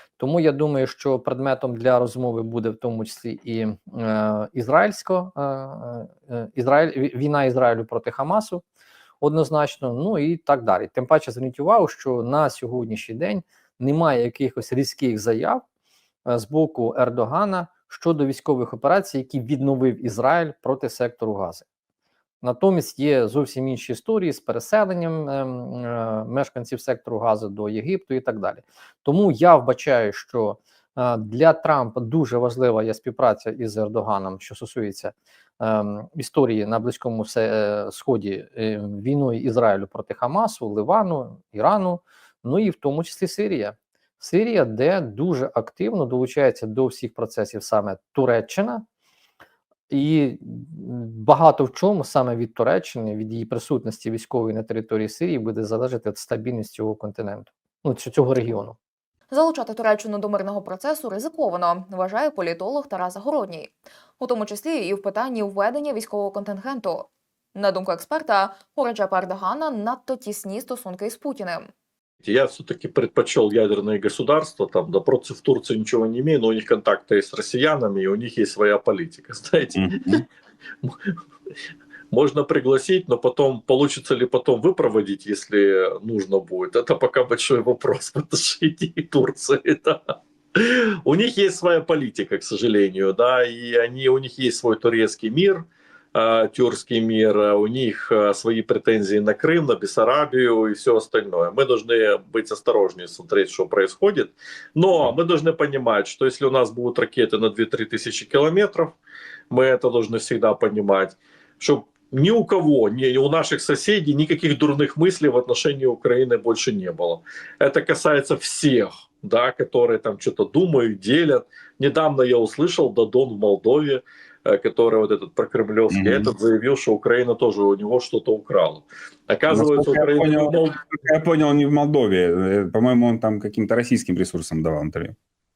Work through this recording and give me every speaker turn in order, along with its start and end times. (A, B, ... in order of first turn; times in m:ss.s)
0:00.2-0:08.6 A
0:09.2-0:15.6 A
0:16.3-0:21.7 A
0:22.4-0:48.8 A
0:49.9-0:58.8 A
0:59.3-1:11.7 B
1:12.2-1:20.2 C
1:19.8-1:20.2 D
1:20.8-1:21.2 C
1:22.1-1:35.6 C
1:36.2-1:49.0 C
1:49.5-2:10.8 C
2:05.9-2:06.3 D
2:09.5-2:15.2 D